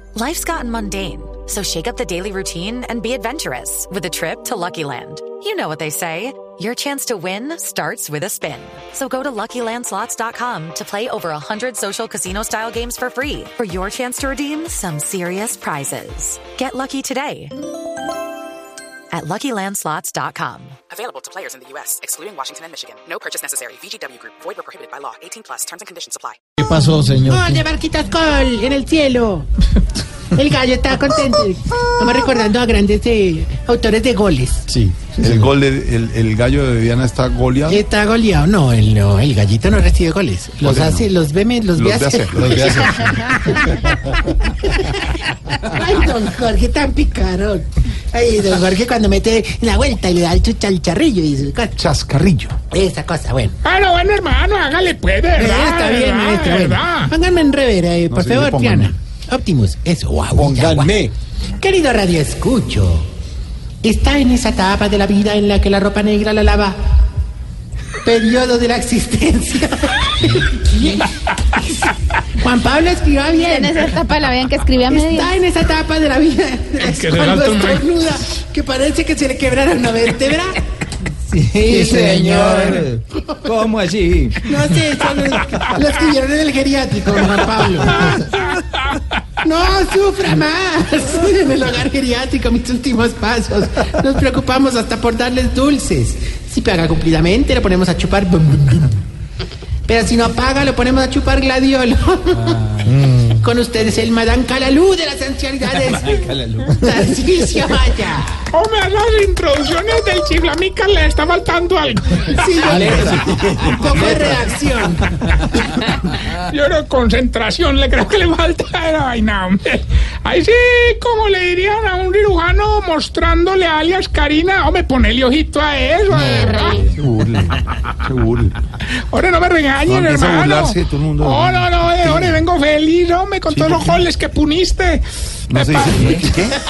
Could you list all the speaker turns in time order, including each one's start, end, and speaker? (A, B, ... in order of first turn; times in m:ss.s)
0:00.2-0:17.5 A
0:19.1-0:20.8 A
0:20.9-0:26.4 B
0:26.6-0:27.6 C
0:27.3-0:29.5 D
0:30.3-0:34.7 D
0:34.7-0:35.5 C
0:35.2-0:37.8 E
0:37.7-0:51.8 D
0:40.6-0:41.0 E
0:41.8-0:42.6 E
0:42.3-0:43.1 C
0:51.8-0:52.6 E
0:52.7-0:53.6 D
0:53.6-0:57.1 F
0:55.4-1:01.0 D
0:58.1-0:58.9 E
1:00.3-1:01.1 C
1:01.6-1:03.0 D
1:03.8-1:06.8 D
1:08.0-1:11.1 D
1:12.4-1:13.9 D
1:13.3-1:15.4 G
1:14.9-1:20.6 D
1:16.8-1:17.8 F
1:21.3-1:23.5 D
1:24.3-1:28.4 D
1:28.0-1:29.1 F
1:29.4-1:38.9 D
1:39.8-1:48.4 D
1:42.8-1:43.4 C
1:48.5-1:53.1 F
1:52.3-1:55.4 D
1:55.6-2:06.9 F
2:06.3-2:06.8 G
2:06.8-2:08.5 E
2:09.1-2:16.2 F
2:09.9-2:12.4 E
2:13.5-2:14.0 E
2:15.5-2:16.6 E